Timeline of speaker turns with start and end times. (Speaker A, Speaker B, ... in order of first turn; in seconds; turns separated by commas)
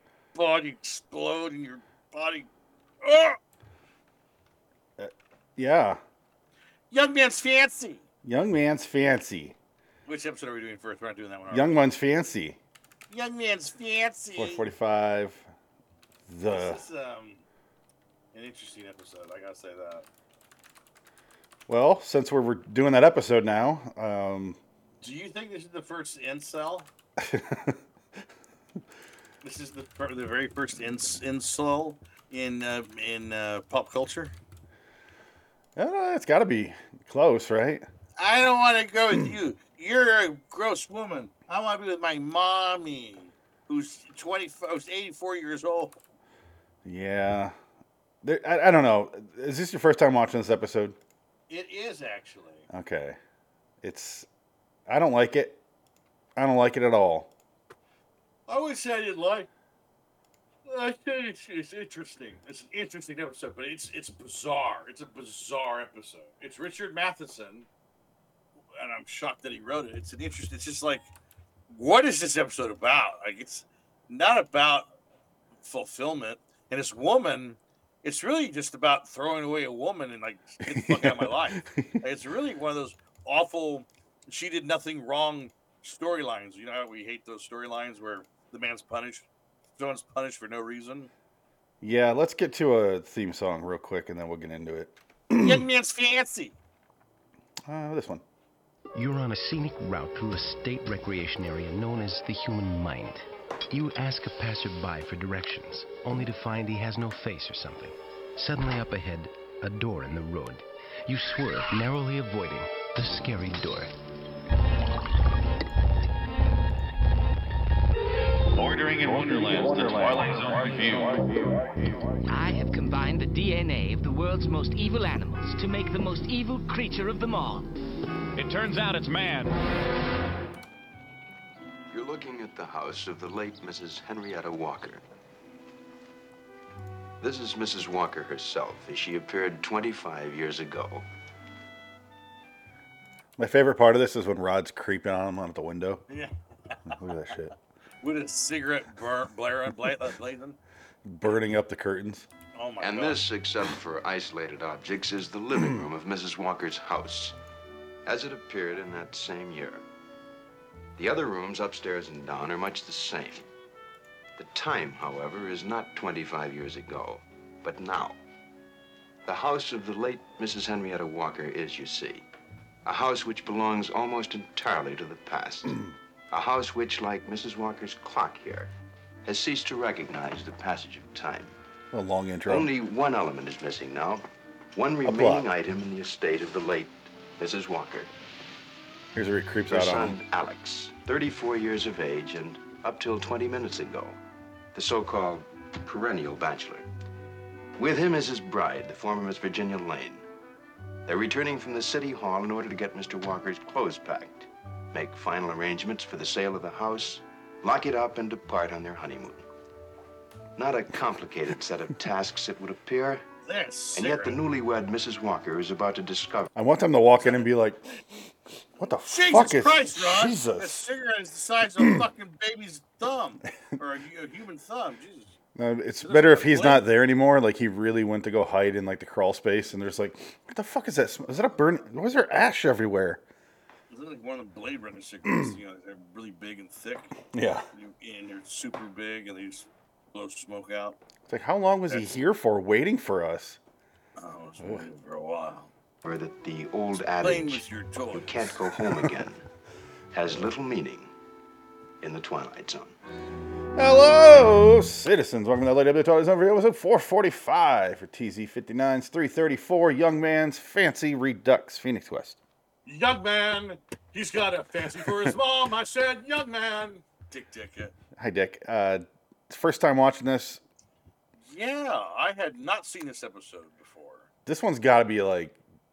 Speaker A: 0.3-2.5, Speaker A: 3.0-3.4, Speaker B: 5.0-6.0, Speaker A: 6.9-8.1, Speaker B: 8.2-9.6, Speaker A: 10.1-11.9, Speaker B: 11.5-12.6, Speaker A: 13.1-14.7, Speaker B: 14.3-15.5, Speaker B: 16.3-16.8, Speaker A: 16.5-17.4, Speaker A: 18.3-20.1, Speaker B: 21.7-24.6, Speaker A: 25.0-26.9, Speaker B: 27.2-27.8, Speaker A: 29.4-34.3, Speaker B: 35.8-37.9, Speaker A: 38.2-46.0, Speaker B: 46.9-47.5, Speaker B: 48.2-51.0, Speaker A: 51.5-52.7, Speaker B: 52.7-53.2, Speaker B: 53.8-54.3, Speaker B: 54.9-55.6, Speaker B: 56.4-57.3, Speaker A: 58.5-59.5, Speaker A: 60.6-67.7, Speaker A: 68.7-71.1, Speaker A: 71.7-74.9, Speaker A: 75.6-91.1, Speaker B: 80.7-81.9, Speaker B: 91.8-95.7, Speaker A: 95.4-96.6, Speaker B: 97.7-98.2, Speaker C: 98.9-113.9, Speaker D: 118.5-121.6, Speaker E: 122.2-127.7, Speaker D: 128.4-129.6, Speaker F: 131.9-135.0, Speaker F: 137.2-141.1, Speaker B: 143.4-146.0, Speaker A: 146.1-147.4, Speaker B: 146.9-147.5, Speaker A: 148.0-150.6, Speaker B: 151.1-152.3, Speaker A: 152.5-153.3, Speaker F: 152.8-157.4, Speaker F: 158.1-159.8, Speaker F: 161.0-163.5, Speaker F: 164.4-168.2, Speaker F: 169.3-172.3, Speaker F: 172.9-178.7, Speaker F: 179.2-181.6, Speaker B: 181.9-182.7, Speaker F: 182.5-188.1, Speaker B: 185.1-185.5, Speaker B: 189.2-190.2, Speaker F: 189.7-194.2, Speaker F: 194.7-196.9, Speaker F: 197.8-200.2, Speaker F: 201.1-209.4, Speaker F: 210.6-213.2, Speaker A: 213.4-214.4, Speaker F: 213.9-216.5, Speaker B: 216.6-217.8, Speaker A: 217.2-218.0, Speaker B: 218.8-220.9, Speaker A: 219.0-225.4, Speaker B: 225.6-233.2, Speaker A: 226.0-226.9, Speaker A: 233.9-237.2, Speaker B: 237.3-237.7, Speaker A: 237.7-241.0, Speaker B: 241.3-243.6, Speaker A: 244.2-245.7, Speaker F: 246.0-249.4, Speaker A: 247.2-248.5, Speaker F: 250.1-251.1, Speaker F: 252.0-253.0, Speaker B: 253.8-262.4, Speaker A: 262.9-267.9, Speaker B: 268.2-270.6, Speaker A: 271.4-274.3, Speaker B: 274.5-275.6